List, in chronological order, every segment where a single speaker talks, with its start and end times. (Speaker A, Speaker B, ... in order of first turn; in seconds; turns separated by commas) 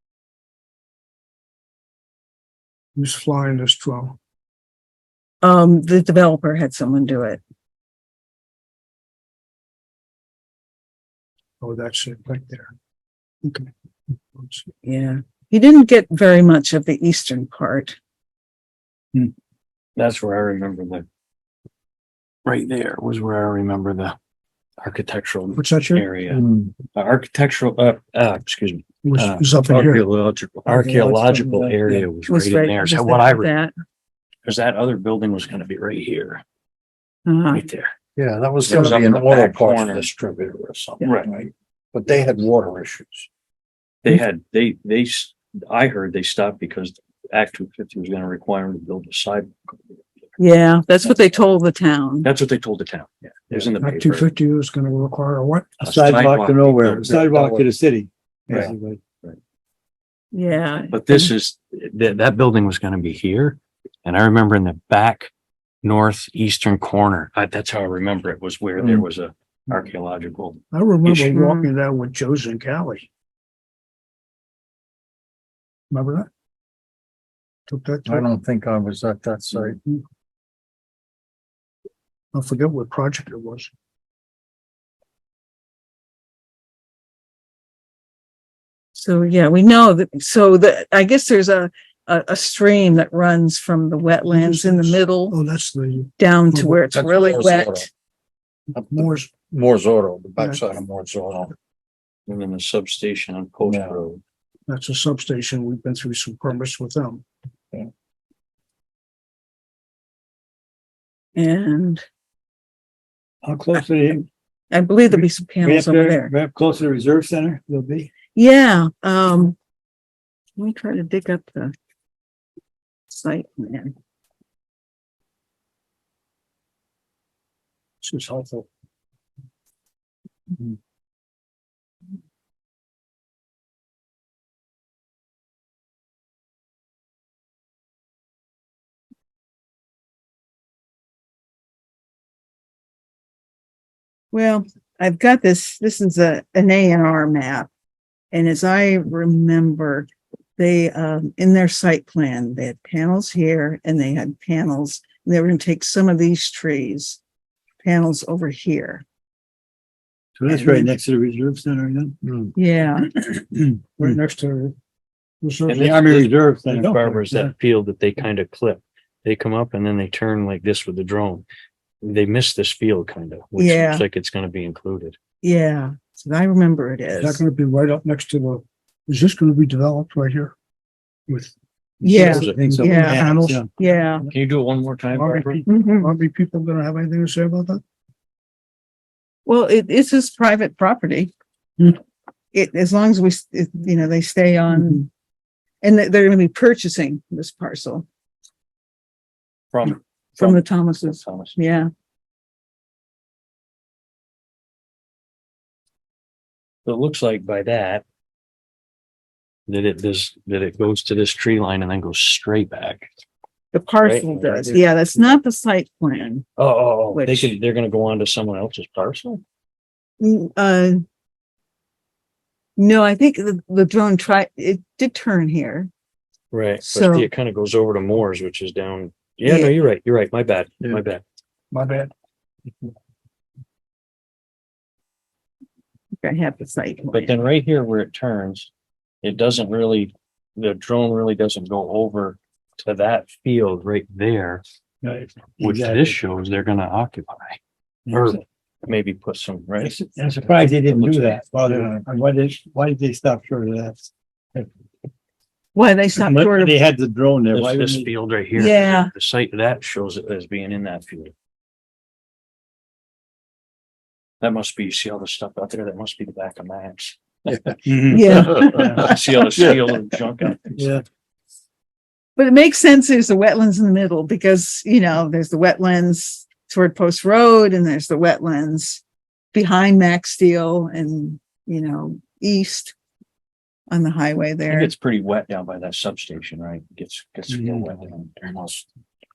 Speaker A: 3.0-4.2, Speaker B: 5.4-7.4, Speaker A: 11.6-12.7, Speaker A: 13.4-13.7, Speaker A: 14.3-14.7, Speaker B: 14.8-18.0, Speaker C: 20.0-21.1, Speaker C: 22.4-24.2, Speaker C: 24.8-26.4, Speaker A: 25.6-26.1, Speaker D: 26.3-26.7, Speaker C: 26.9-33.5, Speaker A: 29.0-30.1, Speaker E: 30.7-32.0, Speaker B: 32.2-33.7, Speaker C: 34.5-36.4, Speaker B: 37.3-37.6, Speaker C: 37.5-37.9, Speaker D: 38.2-43.3, Speaker C: 38.6-40.1, Speaker C: 41.0-41.3, Speaker C: 44.0-50.0, Speaker B: 50.4-52.3, Speaker C: 52.2-54.3, Speaker A: 53.8-55.9, Speaker C: 55.8-57.2, Speaker E: 55.8-59.0, Speaker D: 56.9-57.7, Speaker C: 58.5-59.4, Speaker B: 60.3-61.3, Speaker C: 60.9-65.3, Speaker C: 65.8-71.2, Speaker D: 68.8-69.1, Speaker A: 70.7-73.1, Speaker B: 71.3-71.7, Speaker A: 75.9-76.3, Speaker A: 77.7-78.3, Speaker D: 78.1-79.8, Speaker A: 79.5-80.0, Speaker A: 82.3-83.7, Speaker B: 88.9-95.4, Speaker A: 94.3-97.0, Speaker B: 96.2-97.9, Speaker D: 96.9-97.9, Speaker D: 98.8-101.5, Speaker A: 98.9-99.3, Speaker A: 100.4-100.7, Speaker C: 102.3-104.2, Speaker D: 103.6-104.0, Speaker A: 104.7-107.2, Speaker B: 111.4-112.0, Speaker E: 113.4-114.3, Speaker B: 114.7-116.3, Speaker E: 115.1-118.1, Speaker B: 118.3-119.6, Speaker B: 120.6-121.7, Speaker B: 123.1-123.9, Speaker A: 128.0-128.7, Speaker B: 144.3-147.7, Speaker B: 148.3-157.2, Speaker B: 157.8-159.0, Speaker E: 160.4-162.2, Speaker B: 160.5-160.9, Speaker D: 162.2-162.5, Speaker B: 162.6-163.1, Speaker A: 163.3-164.8, Speaker A: 165.4-166.2, Speaker C: 165.7-171.5, Speaker E: 165.8-167.2, Speaker A: 167.0-167.5, Speaker C: 172.0-175.2, Speaker B: 173.6-174.1, Speaker B: 175.4-177.4, Speaker A: 177.2-180.6, Speaker A: 181.3-181.5, Speaker E: 182.0-183.7, Speaker B: 182.0-184.3, Speaker A: 182.1-183.7, Speaker C: 182.1-182.6, Speaker C: 184.3-185.7, Speaker A: 185.1-187.8, Speaker B: 185.7-186.1, Speaker B: 189.5-191.3, Speaker B: 192.5-195.1, Speaker B: 195.8-198.1, Speaker C: 199.7-201.6, Speaker B: 200.4-201.9, Speaker C: 206.8-208.0, Speaker C: 209.7-213.1, Speaker B: 213.7-216.5, Speaker C: 214.0-214.8, Speaker C: 216.6-219.4, Speaker B: 217.1-217.6, Speaker B: 220.2-221.0, Speaker B: 222.8-225.9, Speaker C: 226.5-231.2, Speaker B: 226.8-227.3, Speaker B: 229.5-229.8, Speaker A: 231.7-232.1, Speaker B: 236.2-237.3, Speaker C: 237.1-238.7, Speaker C: 239.2-244.6, Speaker E: 245.0-246.2, Speaker C: 245.6-247.6, Speaker E: 248.1-248.4, Speaker C: 248.1-251.5, Speaker E: 249.8-254.7, Speaker D: 251.7-252.1, Speaker B: 255.7-256.8, Speaker E: 256.2-258.1, Speaker C: 257.5-261.3, Speaker B: 258.6-259.1, Speaker C: 264.4-270.9, Speaker E: 267.9-268.3, Speaker B: 268.1-269.0, Speaker D: 268.4-269.8, Speaker E: 270.8-271.0, Speaker B: 272.4-279.0, Speaker B: 279.5-282.9, Speaker B: 283.9-284.9, Speaker C: 284.7-288.8, Speaker A: 287.5-287.8, Speaker D: 288.1-288.8